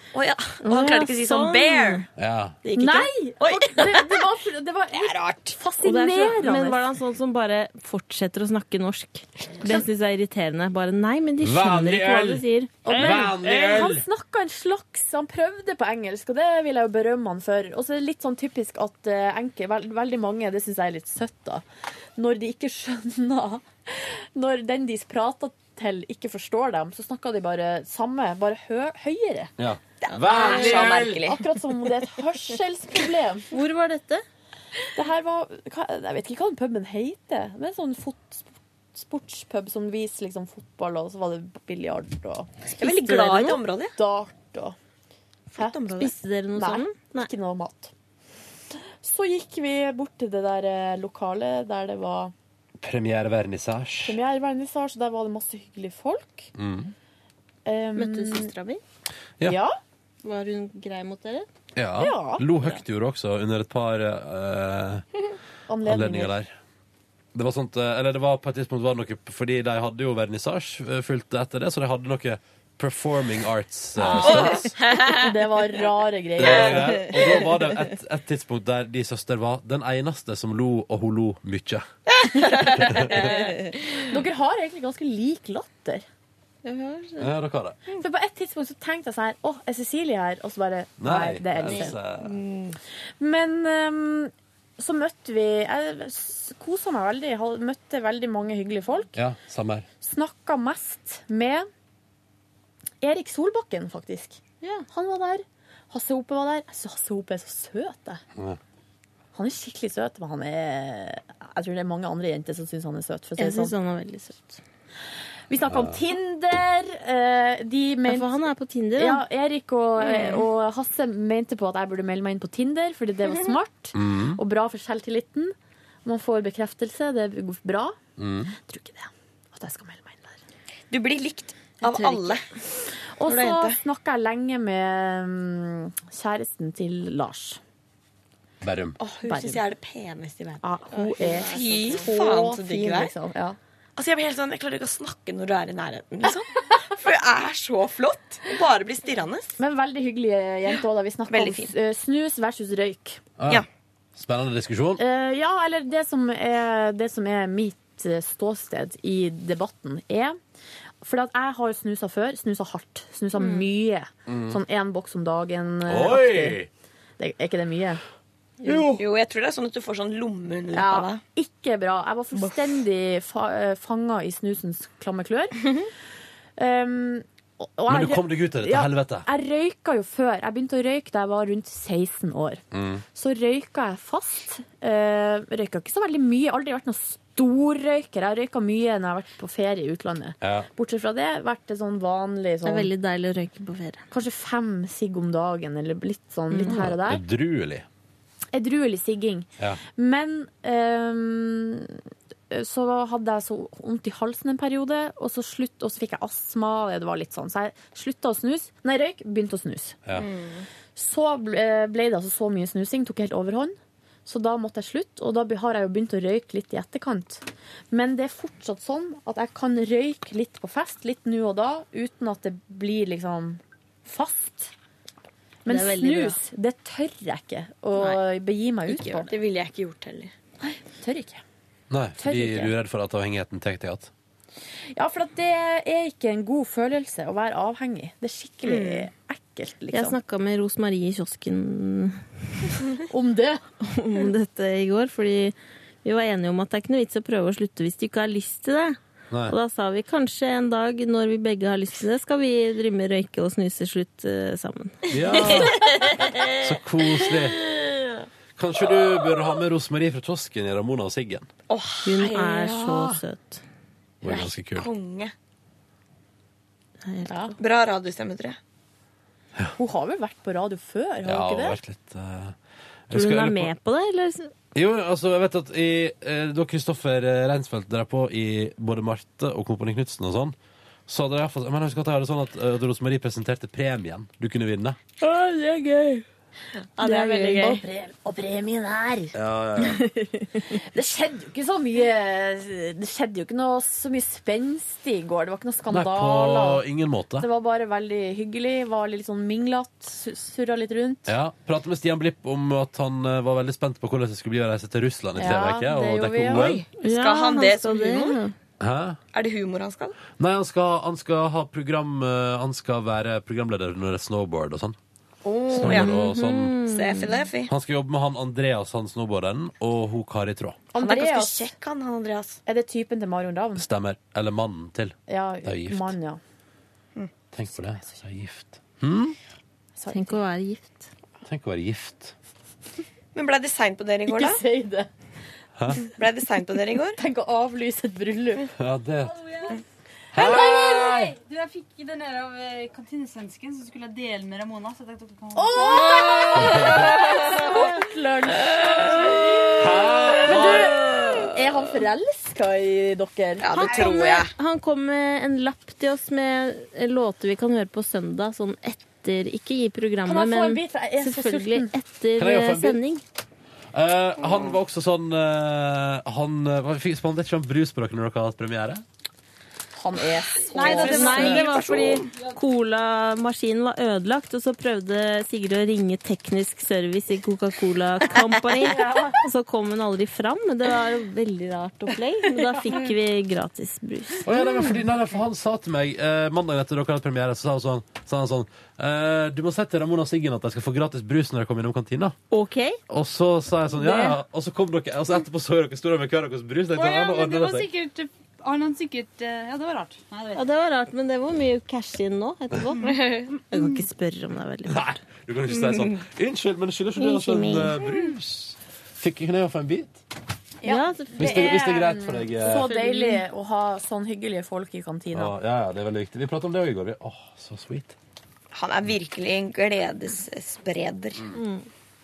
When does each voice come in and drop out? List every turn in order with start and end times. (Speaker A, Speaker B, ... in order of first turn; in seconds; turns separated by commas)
Speaker A: 0.1-2.0, Speaker B: 0.6-2.0, Speaker C: 2.1-2.5, Speaker A: 2.6-4.2, Speaker D: 2.8-6.8, Speaker A: 4.9-5.6, Speaker B: 5.8-13.4, Speaker C: 11.4-14.0, Speaker D: 12.8-21.6, Speaker D: 22.2-29.5, Speaker C: 29.6-31.2, Speaker A: 30.0-31.4, Speaker D: 30.4-33.5, Speaker B: 33.5-34.2, Speaker D: 34.9-44.8, Speaker A: 42.8-43.9, Speaker B: 43.0-43.6, Speaker A: 45.5-46.1, Speaker D: 45.5-46.0, Speaker B: 46.0-47.3, Speaker D: 46.5-47.9, Speaker D: 49.0-52.3, Speaker C: 52.8-54.2, Speaker D: 54.0-56.5, Speaker C: 56.5-56.9, Speaker D: 57.6-58.5, Speaker B: 58.0-58.8, Speaker D: 59.4-59.7, Speaker B: 60.2-61.5, Speaker C: 61.7-65.0, Speaker D: 62.0-62.5, Speaker D: 65.7-66.3, Speaker C: 65.8-66.5, Speaker C: 67.3-74.7, Speaker D: 74.0-77.2, Speaker A: 74.1-75.3, Speaker C: 76.4-81.8, Speaker A: 82.2-83.5, Speaker C: 82.8-83.3, Speaker D: 84.1-86.0, Speaker B: 86.6-87.3, Speaker C: 87.2-87.8, Speaker D: 88.0-92.0, Speaker C: 91.0-92.4, Speaker D: 93.2-99.1, Speaker C: 99.1-99.9, Speaker D: 100.0-101.7, Speaker D: 103.0-104.4, Speaker D: 104.9-108.2, Speaker D: 109.3-113.7, Speaker B: 113.4-114.6, Speaker D: 115.5-118.4, Speaker C: 115.7-116.0, Speaker B: 118.1-119.2, Speaker D: 119.0-128.0, Speaker C: 123.9-124.4, Speaker C: 128.2-128.5, Speaker D: 128.6-130.4, Speaker A: 130.9-132.4, Speaker B: 131.8-132.4, Speaker D: 133.2-137.6, Speaker A: 133.2-133.8, Speaker C: 138.6-139.0, Speaker A: 139.0-140.6, Speaker D: 139.2-139.6, Speaker D: 140.6-143.6, Speaker B: 140.9-141.6, Speaker A: 141.2-143.1, Speaker A: 143.9-149.6, Speaker D: 149.6-153.2, Speaker A: 151.3-151.7, Speaker C: 153.4-153.6, Speaker C: 154.1-155.0, Speaker D: 155.0-160.4, Speaker D: 161.0-166.6, Speaker B: 163.3-163.7, Speaker C: 164.3-164.6, Speaker C: 165.9-166.7, Speaker D: 167.2-168.0, Speaker B: 168.6-168.9, Speaker A: 168.9-171.2, Speaker D: 170.7-175.7, Speaker D: 176.6-182.6, Speaker C: 177.9-179.3, Speaker C: 182.7-183.0, Speaker D: 183.1-192.9, Speaker C: 190.4-190.7, Speaker B: 192.6-194.0, Speaker D: 194.1-197.2, Speaker B: 196.5-196.8, Speaker C: 196.6-197.8, Speaker D: 198.5-202.0, Speaker D: 202.5-210.0, Speaker A: 210.2-210.7, Speaker D: 210.9-224.7, Speaker D: 225.6-229.3, Speaker B: 225.7-226.4, Speaker A: 228.9-230.3, Speaker D: 230.6-231.4, Speaker C: 231.9-234.1, Speaker D: 232.2-232.7, Speaker D: 234.9-240.2, Speaker A: 238.6-239.1, Speaker B: 239.9-242.2, Speaker D: 243.1-243.6, Speaker B: 243.9-255.4, Speaker C: 249.3-249.6, Speaker C: 255.1-255.9, Speaker A: 255.3-256.5, Speaker C: 256.6-257.6, Speaker C: 258.6-261.5, Speaker A: 261.7-263.2, Speaker B: 262.0-263.6, Speaker C: 264.2-264.9, Speaker A: 264.2-265.3, Speaker B: 267.0-267.5, Speaker D: 267.3-267.5, Speaker A: 267.6-268.6, Speaker D: 269.8-271.8, Speaker C: 271.2-272.6, Speaker C: 273.1-273.7, Speaker B: 273.1-274.5, Speaker C: 274.7-280.6, Speaker C: 281.1-285.0, Speaker D: 285.2-286.1, Speaker A: 287.0-287.8, Speaker B: 287.0-287.7, Speaker D: 287.0-290.0, Speaker C: 289.3-290.0, Speaker D: 290.7-296.8, Speaker C: 295.9-297.5, Speaker D: 297.4-301.3, Speaker C: 301.2-306.8, Speaker D: 305.4-306.8, Speaker A: 306.5-308.4, Speaker B: 307.0-308.5, Speaker C: 308.8-309.2, Speaker A: 309.3-310.2, Speaker C: 310.4-315.0, Speaker A: 315.5-316.2, Speaker C: 315.8-316.8, Speaker B: 315.8-317.4, Speaker A: 316.8-317.7, Speaker C: 317.6-320.8, Speaker D: 320.9-321.7, Speaker A: 320.9-322.6, Speaker D: 322.6-323.8, Speaker C: 323.8-326.1, Speaker D: 325.3-326.4, Speaker C: 327.5-329.4, Speaker D: 330.0-330.4, Speaker B: 330.1-331.1, Speaker C: 331.4-332.3, Speaker A: 333.3-334.6, Speaker D: 334.3-335.1, Speaker C: 335.8-336.0, Speaker A: 336.1-337.2, Speaker D: 337.2-338.7, Speaker C: 338.8-339.4, Speaker E: 339.3-339.8, Speaker C: 340.3-341.3, Speaker D: 340.4-341.1, Speaker E: 340.6-346.1, Speaker D: 345.5-354.1, Speaker A: 346.0-347.1, Speaker C: 346.5-347.1, Speaker C: 349.8-351.0, Speaker A: 350.6-351.5, Speaker A: 353.6-354.5, Speaker B: 353.7-363.2, Speaker D: 360.2-361.9, Speaker C: 362.4-363.0, Speaker C: 363.9-369.0, Speaker A: 364.4-364.7, Speaker D: 369.9-371.6, Speaker E: 370.7-371.4, Speaker A: 370.7-372.3, Speaker B: 371.0-384.9, Speaker E: 372.3-372.6, Speaker A: 382.8-383.1, Speaker C: 384.4-392.3, Speaker B: 392.5-393.0, Speaker C: 393.1-397.9, Speaker B: 393.9-394.4, Speaker E: 396.9-400.6, Speaker B: 400.5-405.1, Speaker A: 403.1-403.5, Speaker E: 403.7-404.0, Speaker C: 404.9-410.2, Speaker B: 407.1-408.0, Speaker B: 410.8-411.7, Speaker D: 410.8-415.5, Speaker C: 411.4-412.9, Speaker B: 412.6-413.4, Speaker C: 415.3-418.1, Speaker A: 418.7-421.4, Speaker B: 421.5-421.9